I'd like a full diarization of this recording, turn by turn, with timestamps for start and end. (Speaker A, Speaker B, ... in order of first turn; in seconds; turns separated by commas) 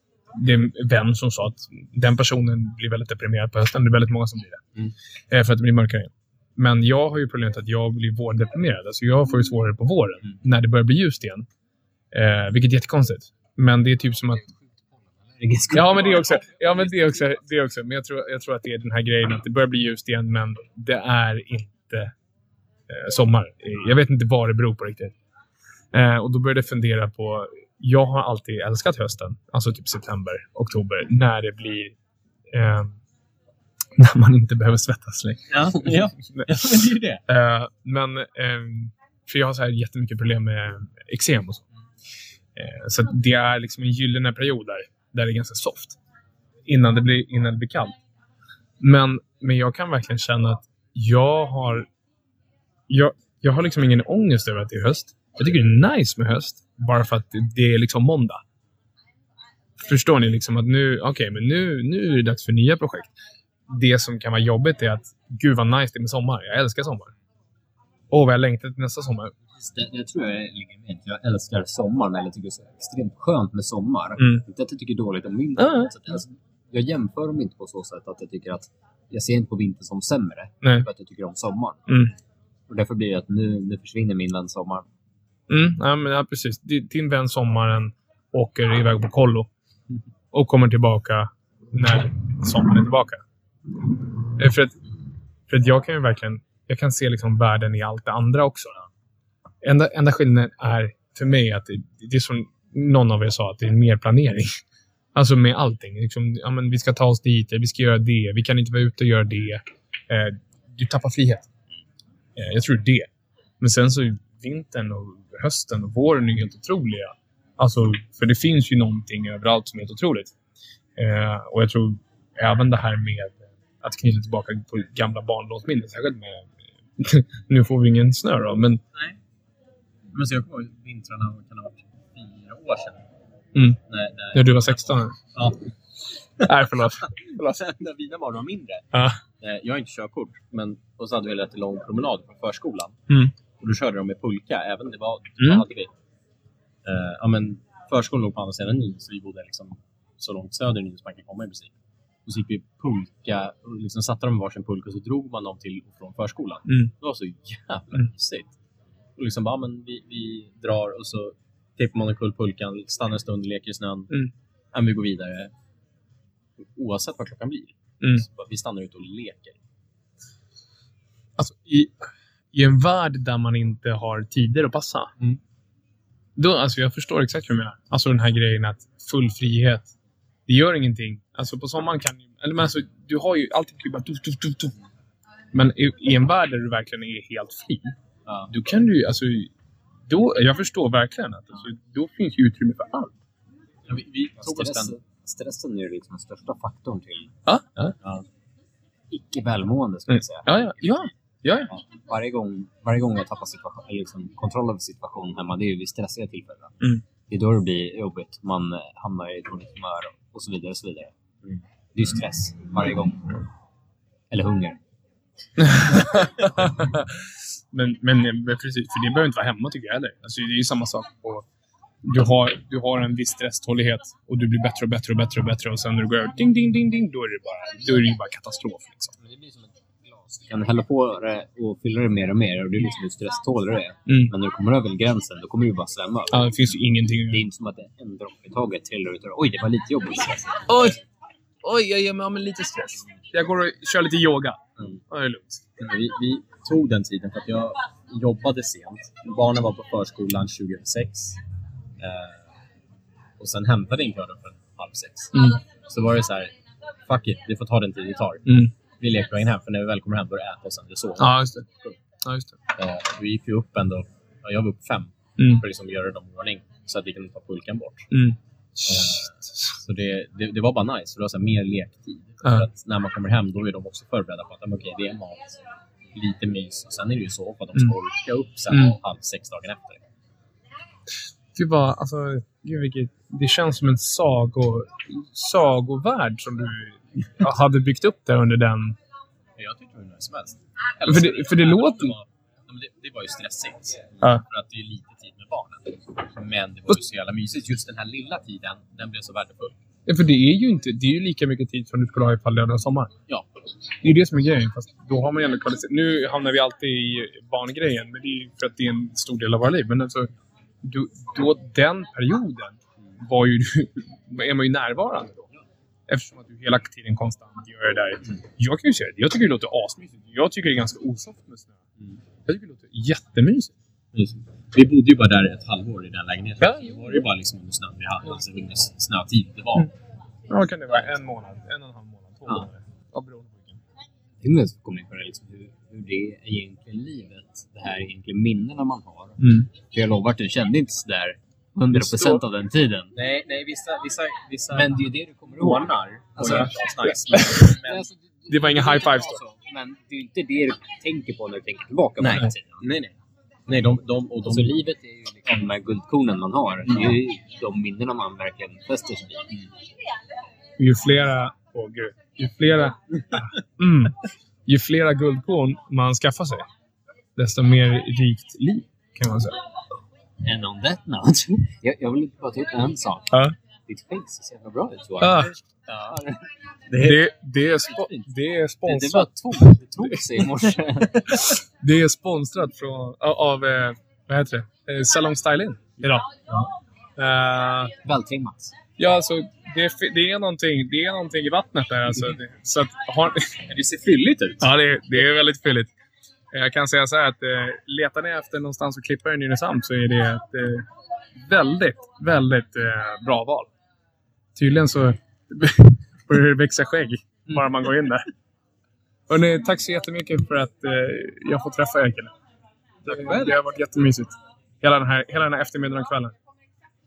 Speaker A: 0.4-4.6, Speaker A: 5.3-11.4, Speaker A: 12.1-14.4, Speaker B: 14.4-17.2, Speaker A: 15.7-22.1, Speaker A: 22.9-25.1, Speaker A: 25.9-31.9, Speaker A: 32.5-33.0, Speaker A: 34.0-35.6, Speaker C: 35.5-37.2, Speaker A: 37.3-41.6, Speaker A: 42.5-46.0, Speaker A: 46.7-48.0, Speaker A: 48.8-51.9, Speaker A: 52.9-58.4, Speaker A: 59.8-63.1, Speaker A: 63.7-67.1, Speaker A: 68.1-69.3, Speaker B: 69.5-81.9, Speaker A: 75.6-75.9, Speaker A: 81.9-82.1, Speaker B: 82.7-84.8, Speaker A: 85.5-89.5, Speaker A: 90.3-93.2, Speaker A: 94.4-94.7, Speaker A: 95.5-98.8, Speaker A: 99.6-104.5, Speaker A: 105.1-111.5, Speaker A: 112.3-113.1, Speaker A: 113.6-120.3, Speaker A: 121.0-128.8, Speaker C: 130.1-133.0, Speaker A: 133.5-133.8, Speaker C: 133.9-135.7, Speaker A: 134.3-135.2, Speaker A: 136.4-137.6, Speaker C: 137.0-138.9, Speaker A: 138.9-139.2, Speaker C: 139.4-143.0, Speaker A: 143.1-143.3, Speaker C: 143.6-145.9, Speaker A: 145.4-145.7, Speaker C: 146.8-151.7, Speaker C: 152.2-158.5, Speaker A: 156.7-156.9, Speaker C: 159.2-164.1, Speaker C: 164.7-165.5, Speaker C: 166.7-169.6, Speaker A: 171.4-175.1, Speaker A: 176.4-179.9, Speaker A: 180.5-184.8, Speaker A: 185.5-187.9, Speaker C: 188.2-188.5, Speaker A: 188.5-189.5, Speaker A: 190.1-193.1, Speaker C: 193.9-194.9, Speaker B: 194.4-197.3, Speaker A: 197.5-197.9, Speaker B: 199.1-200.7, Speaker A: 200.1-201.7, Speaker B: 201.7-206.8, Speaker B: 207.3-211.1, Speaker B: 211.9-213.4, Speaker B: 214.3-214.8, Speaker A: 215.6-221.4, Speaker A: 222.0-229.1, Speaker B: 229.2-236.5, Speaker A: 234.1-234.3, Speaker A: 236.3-237.4, Speaker B: 237.3-240.8, Speaker A: 240.7-241.0, Speaker A: 241.6-245.6, Speaker C: 245.8-251.4, Speaker C: 252.0-252.5, Speaker C: 253.4-256.5, Speaker A: 255.3-255.6, Speaker C: 257.1-262.0, Speaker A: 258.5-258.7, Speaker A: 261.2-261.6, Speaker A: 262.2-262.6, Speaker C: 262.8-268.1, Speaker A: 268.1-269.3, Speaker C: 268.8-280.0, Speaker A: 278.7-279.0, Speaker A: 281.6-289.0, Speaker C: 289.6-299.8, Speaker A: 291.1-292.1, Speaker A: 300.1-303.1, Speaker A: 304.0-310.3, Speaker A: 310.8-315.4, Speaker A: 316.1-321.8, Speaker A: 322.4-323.7, Speaker C: 324.1-329.9, Speaker A: 326.6-327.1, Speaker A: 330.5-333.8, Speaker B: 334.4-343.1, Speaker A: 339.4-339.7, Speaker A: 341.9-342.4, Speaker C: 343.1-344.9, Speaker B: 344.7-346.7, Speaker C: 345.6-348.1, Speaker A: 346.4-346.7, Speaker A: 347.3-347.7, Speaker B: 347.7-352.8, Speaker A: 348.5-349.4, Speaker C: 352.2-353.1, Speaker C: 353.7-354.7, Speaker B: 354.4-359.5, Speaker C: 356.9-357.1, Speaker A: 360.8-366.6, Speaker A: 367.4-369.6, Speaker B: 370.4-376.4, Speaker A: 375.2-375.5, Speaker C: 376.9-377.2, Speaker A: 377.0-379.8, Speaker C: 377.8-378.2, Speaker B: 378.8-381.1, Speaker C: 380.3-381.1, Speaker A: 381.3-386.2, Speaker C: 386.0-386.7, Speaker A: 387.2-387.9, Speaker B: 388.0-388.8, Speaker A: 389.0-393.5, Speaker C: 393.7-394.6, Speaker A: 394.6-395.9, Speaker A: 396.5-400.9, Speaker A: 401.4-403.7, Speaker A: 404.5-408.2, Speaker A: 409.3-412.3, Speaker A: 413.0-416.3, Speaker C: 413.1-413.6